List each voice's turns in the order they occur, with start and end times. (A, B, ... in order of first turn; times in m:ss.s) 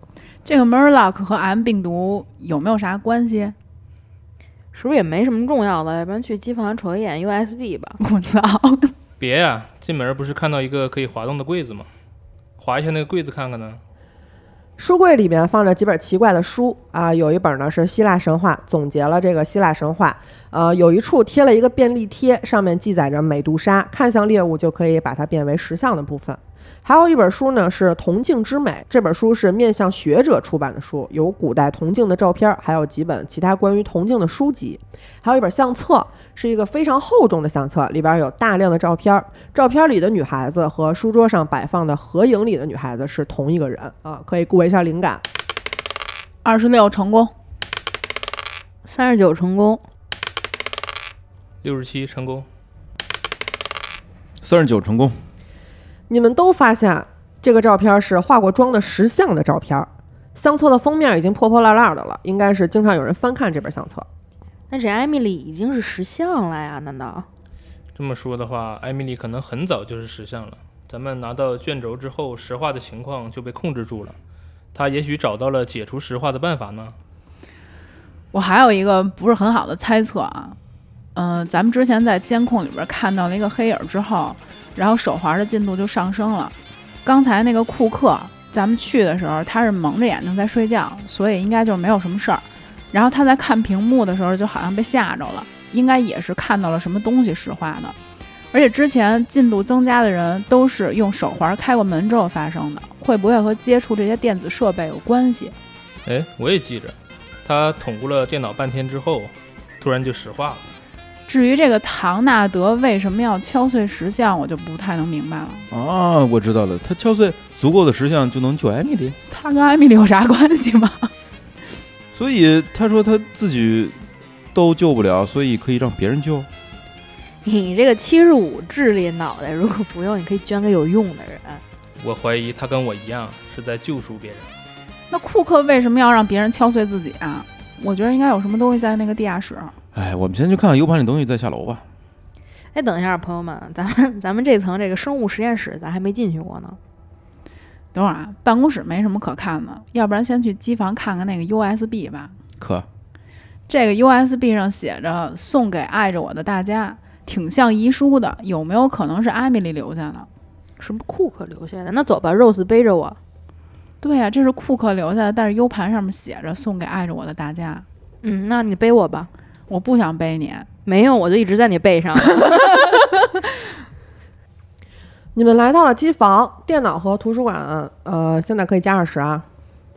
0:00.4-0:03.5 A
0:04.7-0:08.0 B
0:08.0-0:08.9 A
0:09.2-0:11.9 C
0:12.6-0:13.8 C
0:14.8-0:45.2 D
0:46.4-0:47.3 A
0:48.9-0:49.8 B
0:51.6-0:52.5 C
0:54.4-0:55.1 E
0:56.1-1:04.1 D
1:04.7-1:07.3 B
1:07.9-1:14.2 C
1:14.7-1:17.0 C
1:18.3-1:20.6 A
1:21.1-1:26.5 A
1:27.0-1:38.0 A
1:38.5-1:45.6 A
1:46.0-1:50.6 C
1:51.3-1:55.7 A
1:55.7-1:59.2 E
1:59.3-2:01.1 A
2:02.1-2:04.0 E
2:04.5-2:06.5 E
2:07.4-2:11.6 B
2:12.0-2:14.5 C
2:15.1-2:19.7 A
2:19.9-2:21.8 E
2:22.7-2:26.8 B
2:27.9-2:32.3 A
2:32.6-2:32.8 E
2:33.7-2:40.3 A
2:40.8-2:43.2 B
2:44.0-2:47.8 A
2:48.2-2:49.3 B
2:49.7-2:50.7 A
2:50.8-2:53.0 B
2:55.3-2:59.4 D